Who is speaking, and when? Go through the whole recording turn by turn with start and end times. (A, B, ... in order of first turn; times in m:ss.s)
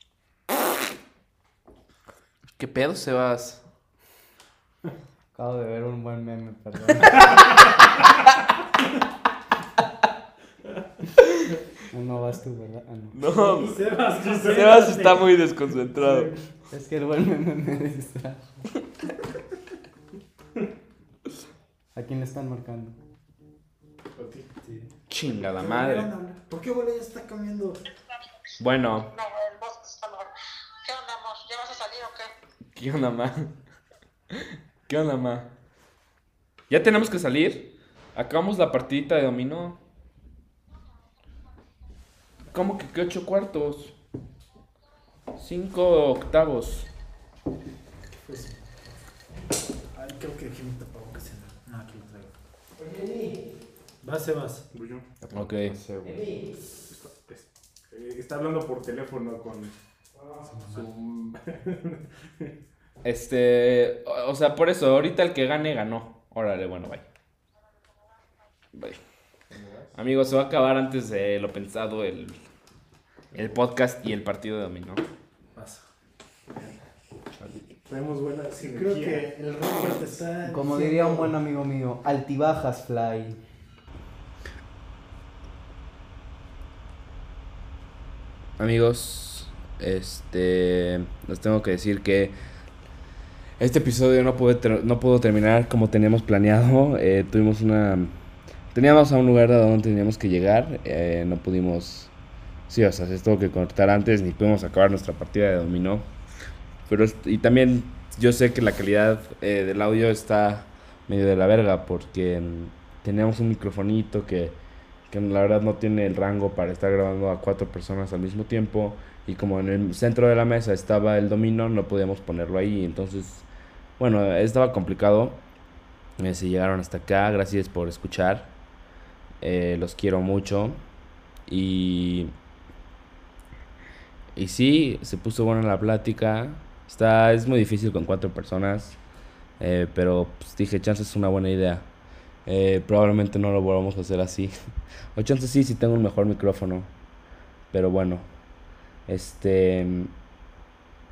0:02.6-0:03.6 A
0:05.3-0:07.3 B
0:11.9-0:13.2 B
0:13.1-0:16.3 A
0:13.3-0:15.4 C
0:16.0-0:16.3 C
0:16.7-0:18.6 B
0:22.0-0:23.0 B
0:24.1-0:24.5 D
0:24.6-0:24.9 C
0:25.1-0:26.1 A
0:25.6-0:27.8 C
0:28.6-0:29.1 A
0:29.0-0:30.3 E
0:30.8-0:32.3 E
0:32.7-0:33.5 A
0:34.3-0:35.5 A
0:36.7-0:39.8 A
0:42.5-0:43.9 A
0:45.4-0:46.9 A
0:48.2-0:49.0 C
0:49.9-0:52.3 C
0:54.0-0:54.7 C
0:54.7-0:55.1 D
0:55.3-0:55.9 A
0:55.7-0:56.3 B
0:56.9-0:59.7 D
1:00.4-1:00.9 C
1:00.7-1:02.5 D
1:03.0-1:07.0 A
1:08.7-1:09.0 A
1:09.5-1:09.9 D
1:10.0-1:12.4 A
1:13.3-1:15.0 A
1:15.6-1:15.9 C
1:16.5-1:16.8 D
1:17.9-1:20.0 D
1:18.6-1:21.3 C
1:20.4-1:23.4 B
1:28.6-1:32.3 A
1:33.6-1:38.1 A
1:38.7-1:42.1 A
1:42.7-1:46.0 A
1:46.9-1:54.5 A
1:55.1-2:03.4 A
2:04.0-2:05.4 A
2:06.2-2:08.5 A
2:09.4-2:10.8 A
2:11.5-2:12.3 A
2:14.3-2:19.0 A
2:19.6-2:21.9 A
2:22.4-2:24.5 A
2:25.1-2:26.9 A
2:27.7-2:28.2 A
2:29.1-2:30.1 A